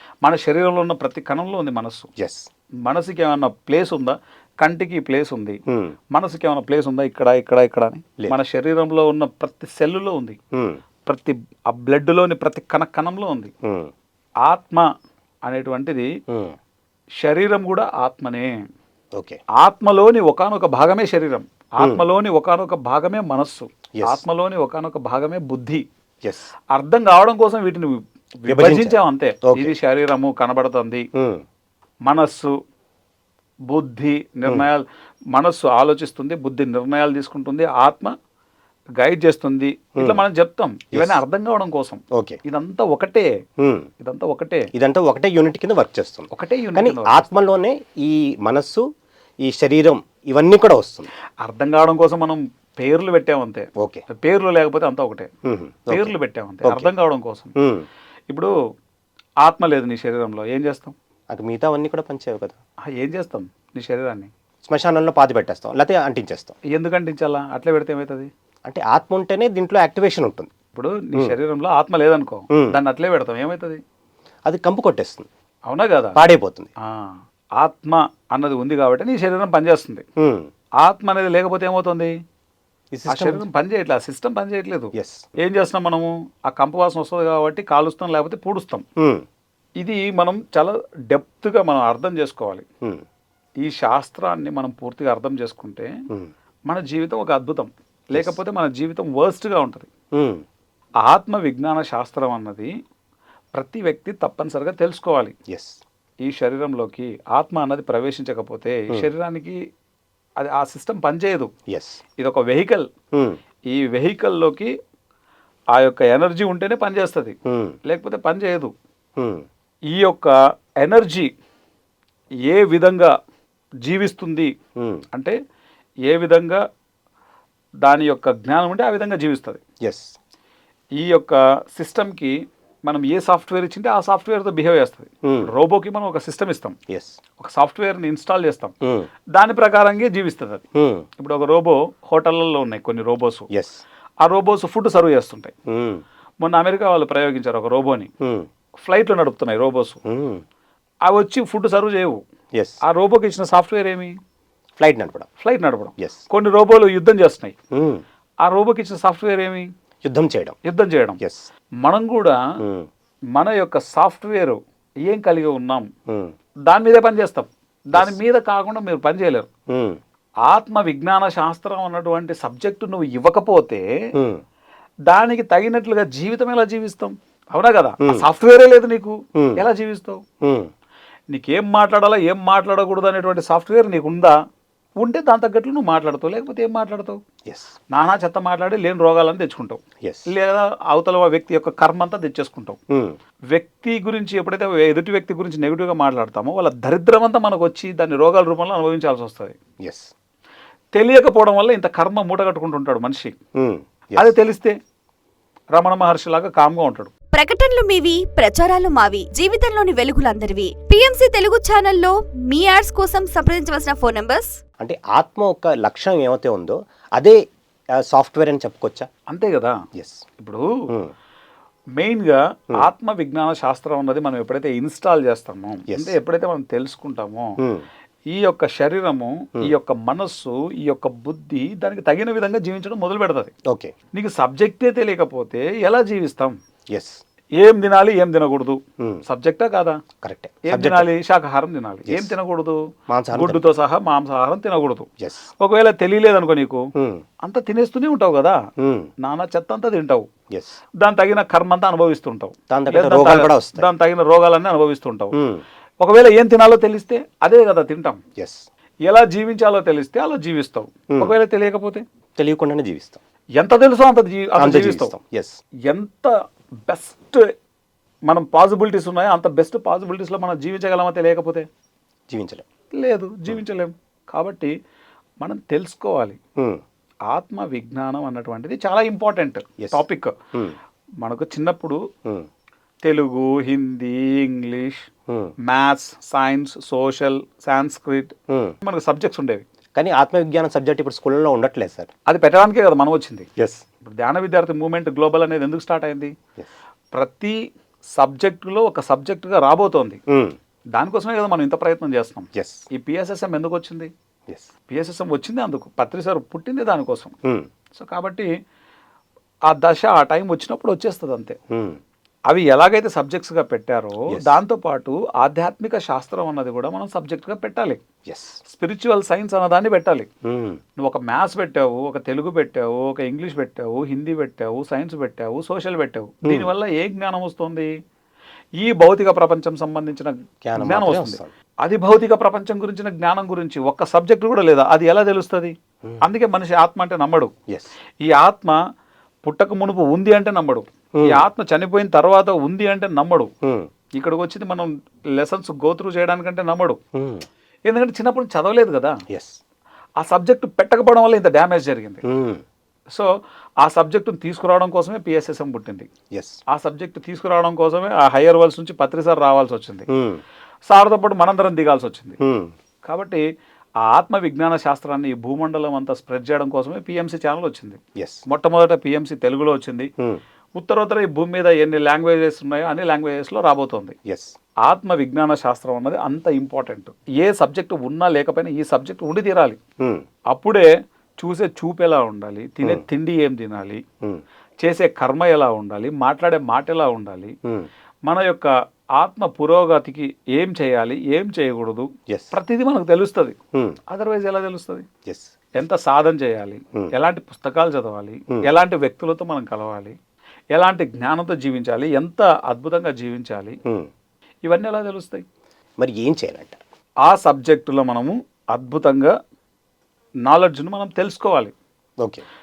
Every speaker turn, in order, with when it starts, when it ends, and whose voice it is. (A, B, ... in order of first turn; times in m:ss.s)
0:00.2-0:02.1 A
0:02.2-0:02.5 B
0:02.8-0:05.6 A
0:05.7-0:06.0 B
0:06.1-0:10.4 A
0:10.5-0:10.8 B
0:11.0-0:13.5 A
0:13.6-0:13.9 B
0:14.4-0:14.9 A
0:15.4-0:16.1 A
0:16.3-0:16.6 B
0:17.2-0:18.5 A
0:19.1-0:19.4 B
0:19.6-0:25.8 A
0:23.9-0:24.2 B
0:26.2-0:26.5 B
0:26.7-0:31.1 A
0:28.5-0:29.7 B
0:31.1-0:31.4 B
0:32.0-0:32.5 A
0:33.7-0:38.1 A
0:39.0-0:43.3 A
0:40.0-0:40.2 B
0:40.9-0:41.2 B
0:42.1-0:42.4 B
0:43.6-0:43.9 B
0:44.0-0:44.7 A
0:44.7-0:48.8 B
0:46.3-0:47.3 A
0:49.4-0:51.1 B
0:51.4-0:55.3 A
0:53.8-0:54.0 B
0:55.4-0:56.9 B
0:55.9-0:57.5 A
0:57.6-0:57.9 B
0:59.4-1:00.9 A
1:01.3-1:02.6 B
1:02.8-1:04.3 A
1:04.6-1:06.5 B
1:06.7-1:08.3 A
1:08.6-1:10.5 B
1:10.7-1:13.8 A
1:12.5-1:12.8 B
1:14.4-1:15.3 B
1:15.7-1:16.2 A
1:16.1-1:16.7 B
1:16.8-1:20.0 A
1:20.2-1:20.5 B
1:20.8-1:22.1 A
1:22.9-1:23.4 B
1:23.1-1:28.8 A
1:24.9-1:25.3 B
1:29.0-1:29.2 B
1:29.8-1:32.6 A
1:33.6-1:35.9 A
1:36.7-1:39.9 A
1:40.1-1:40.4 B
1:41.0-1:42.7 A
1:43.5-1:45.3 A
1:45.5-1:45.8 B
1:46.2-1:49.6 A
1:50.4-1:51.5 A
1:51.7-1:52.0 B
1:52.2-1:52.9 A
1:53.1-1:53.4 B
1:53.7-1:54.7 A
1:55.7-1:58.7 A
1:57.4-1:57.8 B
1:59.2-1:59.4 B
1:59.9-2:01.3 A
2:02.4-2:03.1 A
2:03.8-2:04.5 A
2:04.8-2:05.0 B
2:06.0-2:06.6 A
2:07.8-2:09.6 A
2:09.8-2:10.2 B
2:11.0-2:16.8 A
2:16.9-2:17.2 B
2:17.4-2:18.7 A
2:18.8-2:19.1 B
2:19.3-2:20.6 A
2:20.7-2:21.0 B
2:21.2-2:23.5 A
2:23.5-2:23.8 B
2:24.2-2:25.5 A
2:25.7-2:26.0 B
2:26.4-2:28.1 A
2:28.2-2:28.5 B
2:28.8-2:30.0 A
2:30.0-2:30.4 B
2:31.0-2:32.2 A
2:32.5-2:32.8 B
2:32.8-2:34.2 A
2:34.8-2:35.3 B
2:35.4-2:37.5 A
2:37.7-2:38.0 B
2:38.4-2:39.7 A
2:40.0-2:40.6 B
2:40.6-2:41.2 A
2:41.2-2:41.5 B
2:41.8-2:42.4 A
2:42.6-2:42.9 B
2:43.3-2:45.9 A
2:46.1-2:46.3 B
2:46.6-2:49.5 A
2:49.7-2:50.0 B
2:50.4-2:53.9 A
2:54.1-2:54.4 B
2:55.1-3:00.2 A
2:59.3-2:59.6 B
3:00.4-3:00.7 B
3:01.3-3:04.4 A
3:05.0-3:07.2 A
3:07.4-3:07.7 B
3:07.9-3:12.8 A
3:10.0-3:10.3 B
3:12.9-3:13.2 B
3:13.5-3:19.6 A
3:19.8-3:20.1 B
3:20.9-3:23.4 A
3:23.5-3:24.4 B
3:24.2-3:24.8 A
3:25.7-3:27.1 A
3:27.3-3:34.6 C
3:34.8-3:37.4 B
3:37.9-3:39.1 B
3:39.3-3:39.8 A
3:39.9-3:40.2 B
3:40.4-3:40.9 A
3:42.0-3:47.6 A
3:45.9-3:46.2 B
3:47.6-3:47.8 B
3:48.3-3:53.5 A
3:53.6-3:53.9 B
3:54.1-3:56.6 A
3:56.9-3:57.2 B
3:57.6-4:00.0 A
3:59.0-3:59.2 B
4:00.2-4:01.1 B
4:00.6-4:05.1 A
4:02.1-4:02.3 B
4:03.1-4:03.7 B
4:05.2-4:05.5 B
4:05.6-4:06.9 A
4:06.9-4:07.2 B
4:07.4-4:08.6 A
4:08.8-4:09.1 B
4:09.2-4:10.3 A
4:10.5-4:10.8 B
4:11.0-4:15.4 A
4:12.7-4:13.9 B
4:15.3-4:15.6 B
4:16.0-4:18.2 A
4:18.4-4:18.6 B
4:19.0-4:22.0 A
4:22.4-4:23.2 B
4:23.6-4:25.1 A
4:24.6-4:25.6 B
4:25.9-4:26.3 A
4:26.9-4:27.5 A
4:28.2-4:31.6 A
4:32.3-4:32.6 B
4:32.9-4:34.7 A
4:35.4-4:36.4 A
4:36.6-4:36.8 B
4:37.3-4:40.3 A
4:41.2-4:42.0 A
4:43.0-4:45.0 A
4:45.3-4:45.5 B
4:45.6-4:49.6 A
4:48.5-4:48.7 B
4:49.9-4:52.1 B
4:52.3-4:53.5 A
4:53.6-4:53.8 B
4:54.0-4:56.4 A
4:57.1-4:57.6 A
4:58.1-5:00.2 A
5:00.3-5:00.6 B
5:00.9-5:04.1 A
5:02.5-5:02.8 B
5:04.9-5:07.3 A
5:07.4-5:07.7 B
5:07.9-5:08.5 A
5:09.6-5:11.6 A
5:11.7-5:12.0 B
5:12.5-5:18.0 A
5:14.3-5:14.6 B
5:18.2-5:18.6 B
5:18.6-5:20.3 A
5:20.4-5:20.8 B
5:21.0-5:27.9 A
5:28.8-5:37.5 A
5:30.6-5:31.5 B
5:37.7-5:37.9 B
5:38.2-5:38.8 A
5:39.4-5:43.5 A
5:41.1-5:41.4 B
5:43.6-5:43.9 B
5:44.1-5:47.0 A
5:47.1-5:47.4 B
5:47.8-5:49.2 A
5:49.3-5:49.6 B
5:50.2-5:52.2 A
5:52.2-5:52.6 B
5:53.8-5:56.1 A
5:56.3-5:56.6 B
5:56.7-6:00.1 A
6:00.1-6:00.4 B
6:00.8-6:02.4 A
6:02.4-6:02.7 B
6:03.0-6:03.4 A
6:04.0-6:10.1 A
6:08.1-6:08.4 B
6:10.8-6:14.2 A
6:14.2-6:14.5 B
6:14.8-6:19.8 A
6:20.0-6:20.2 B
6:20.5-6:20.8 A
6:21.4-6:24.0 A
6:24.8-6:27.6 A
6:28.2-6:33.6 A
6:32.3-6:32.5 B
6:33.7-6:34.0 B
6:34.1-6:35.0 A
6:35.2-6:35.5 B
6:35.8-6:40.1 A
6:40.7-6:43.8 A
6:43.8-6:44.1 B
6:44.6-6:45.4 A
6:46.0-6:46.8 B
6:47.2-6:49.3 A
6:50.4-6:51.7 A
6:52.2-6:52.4 B